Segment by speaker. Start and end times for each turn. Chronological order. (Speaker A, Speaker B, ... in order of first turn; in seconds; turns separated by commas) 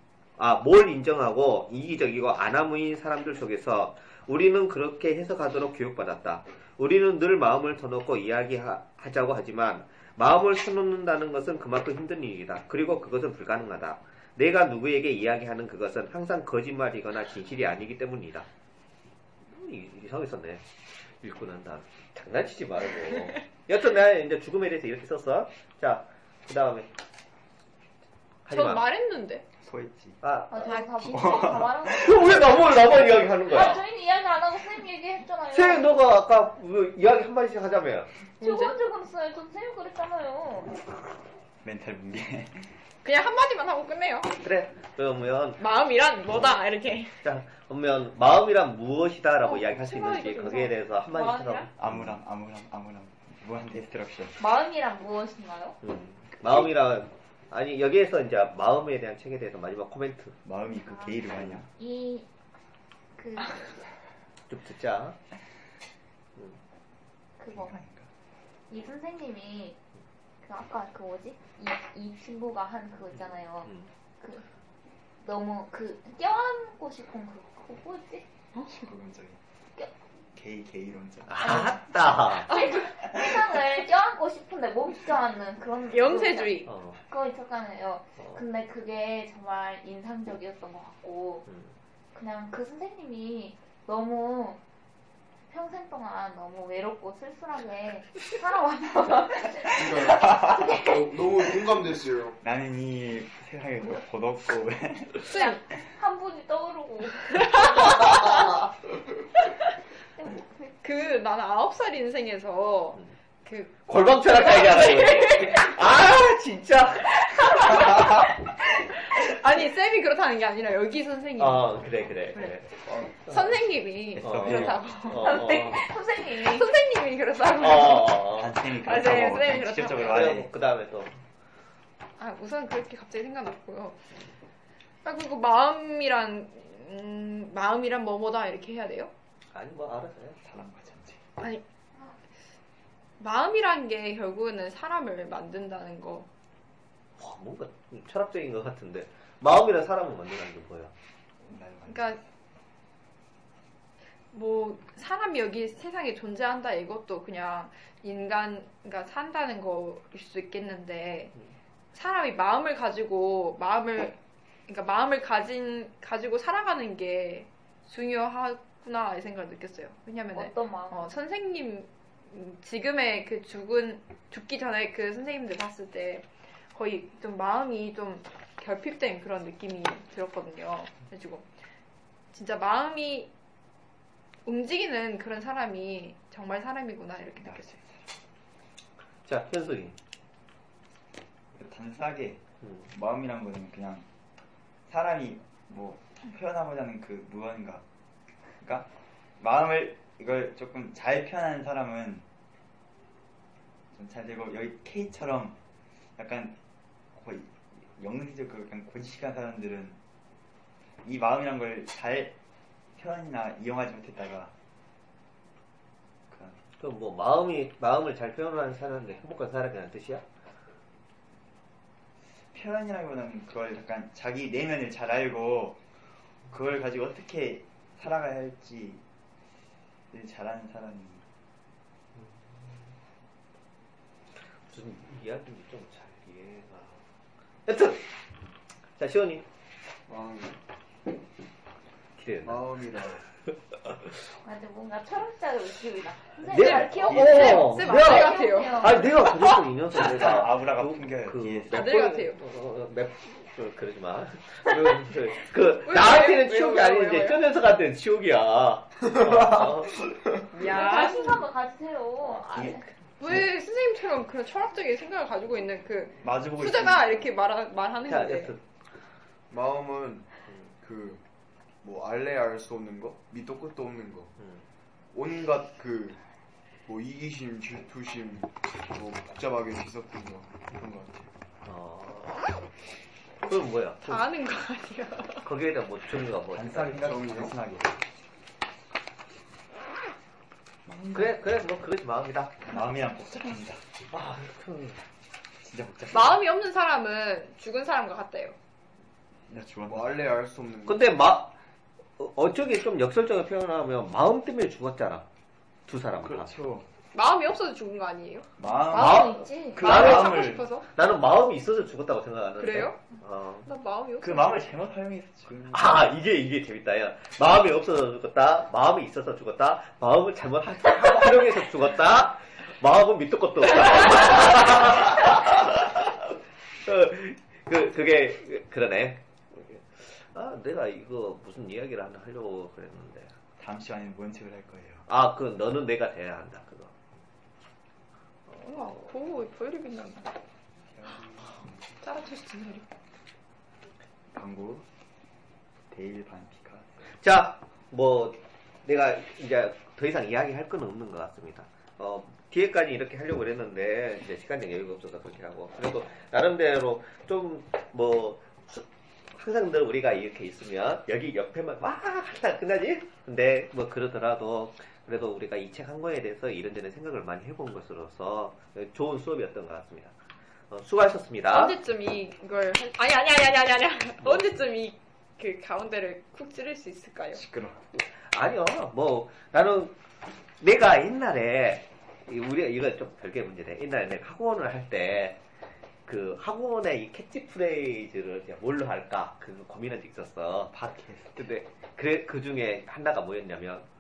Speaker A: 0.4-18.5, Speaker A: 19.4-20.7, Speaker A: 21.2-26.9, Speaker A: 28.4-28.9, Speaker B: 28.5-29.4, Speaker C: 29.6-30.2, Speaker A: 30.2-30.8, Speaker D: 30.5-32.5, Speaker C: 31.1-32.2, Speaker A: 31.9-33.8, Speaker D: 33.5-35.9, Speaker A: 35.5-38.1, Speaker B: 38.4-38.8, Speaker D: 38.4-40.8, Speaker C: 41.6-42.7, Speaker B: 43.0-44.3, Speaker A: 44.4-45.6, Speaker B: 45.6-47.2, Speaker A: 46.2-46.6, Speaker A: 47.2-52.1, Speaker B: 49.4-50.8, Speaker D: 51.1-51.7, Speaker C: 51.8-54.4, Speaker D: 54.4-55.8, Speaker A: 55.8-60.4, Speaker C: 60.4-61.7, Speaker D: 60.9-62.3, Speaker A: 61.3-61.6, Speaker D: 63.2-63.8, Speaker A: 64.5-65.2, Speaker D: 67.4-67.8, Speaker C: 67.5-68.1, Speaker D: 68.7-69.8, Speaker D: 70.4-74.5, Speaker A: 73.6-73.9, Speaker D: 75.2-78.3, Speaker B: 78.5-78.9, Speaker C: 78.8-79.4, Speaker C: 80.3-81.9, Speaker A: 81.3-82.5, Speaker D: 82.5-91.5, Speaker B: 85.9-86.7, Speaker A: 86.7-87.0, Speaker A: 88.2-88.4, Speaker A: 91.5-91.7, Speaker D: 92.1-94.6, Speaker D: 95.5-99.8, Speaker E: 99.7-102.4, Speaker C: 100.2-100.8, Speaker C: 102.4-105.3, Speaker B: 105.3-105.6, Speaker D: 105.3-108.1, Speaker D: 110.2-110.7, Speaker B: 110.8-115.8, Speaker A: 113.9-118.2, Speaker B: 117.3-121.8, Speaker A: 121.4-122.7, Speaker B: 123.2-125.5, Speaker A: 123.3-123.5, Speaker C: 124.1-124.9, Speaker A: 124.2-125.8, Speaker D: 125.1-126.7, Speaker B: 126.3-130.3, Speaker A: 127.6-128.6, Speaker C: 128.3-130.5, Speaker A: 130.0-131.1, Speaker B: 132.2-134.0, Speaker B: 135.0-139.1, Speaker A: 139.5-140.4, Speaker C: 140.4-141.2, Speaker B: 143.2-146.3, Speaker A: 147.2-150.9, Speaker C: 151.5-152.2, Speaker B: 151.9-152.2, Speaker B: 154.3-161.3, Speaker B: 161.9-181.5, Speaker D: 170.3-171.1, Speaker B: 182.3-183.3, Speaker B: 184.4-187.8, Speaker C: 187.4-188.0, Speaker A: 189.2-190.0, Speaker C: 191.6-194.1, Speaker C: 194.9-197.8, Speaker C: 198.6-198.9, Speaker C: 199.4-202.3, Speaker C: 203.9-205.6, Speaker C: 206.2-206.6, Speaker C: 207.1-210.0, Speaker C: 211.0-212.4, Speaker C: 213.0-214.5, Speaker C: 216.3-216.6, Speaker A: 216.8-220.3, Speaker C: 222.5-225.8, Speaker C: 226.5-229.0, Speaker C: 230.1-231.3, Speaker A: 232.2-232.8, Speaker A: 234.7-237.1, Speaker A: 237.7-238.1, Speaker A: 239.0-239.5, Speaker E: 240.1-240.6, Speaker A: 242.2-243.2, Speaker E: 242.4-243.2, Speaker A: 243.8-244.1, Speaker D: 244.4-249.1, Speaker B: 246.5-249.6, Speaker A: 246.5-260.0, Speaker C: 249.9-251.9, Speaker B: 251.7-252.4, Speaker B: 255.9-257.4, Speaker E: 259.2-259.8, Speaker B: 260.5-261.5, Speaker D: 260.6-262.9, Speaker C: 262.5-263.4, Speaker A: 262.5-262.8, Speaker B: 263.2-268.5, Speaker C: 266.2-267.2, Speaker A: 268.1-268.6, Speaker E: 269.5-271.2, Speaker E: 271.8-274.3, Speaker A: 274.4-274.6, Speaker E: 275.1-276.2, Speaker E: 276.9-281.3, Speaker A: 281.6-282.4, Speaker A: 283.4-284.3, Speaker B: 284.1-285.5, Speaker A: 285.4-287.2, Speaker C: 286.5-288.0, Speaker E: 286.9-287.6, Speaker C: 290.9-291.3, Speaker A: 291.1-292.7, Speaker C: 292.6-293.8, Speaker A: 294.1-295.0, Speaker C: 295.6-296.4, Speaker B: 296.1-298.6, Speaker C: 299.5-300.3, Speaker E: 299.9-301.1, Speaker A: 300.9-301.5, Speaker A: 302.2-305.3, Speaker A: 305.9-306.6, Speaker C: 306.2-306.9, Speaker B: 307.1-310.9, Speaker C: 308.6-310.7, Speaker D: 308.7-309.9, Speaker A: 308.9-313.7, Speaker B: 312.6-314.8, Speaker C: 314.2-316.1, Speaker A: 315.7-333.4, Speaker C: 333.6-335.0, Speaker A: 335.1-336.9, Speaker B: 338.5-340.4, Speaker C: 340.9-341.5, Speaker B: 342.0-342.9, Speaker C: 344.3-344.9, Speaker C: 345.9-347.0, Speaker A: 347.2-370.1, Speaker A: 370.7-371.8, Speaker B: 371.5-377.4, Speaker A: 374.2-374.5, Speaker C: 377.3-377.8, Speaker A: 378.0-380.0, Speaker A: 380.6-385.4, Speaker A: 386.1-390.7, Speaker C: 390.7-391.4, Speaker A: 391.4-393.9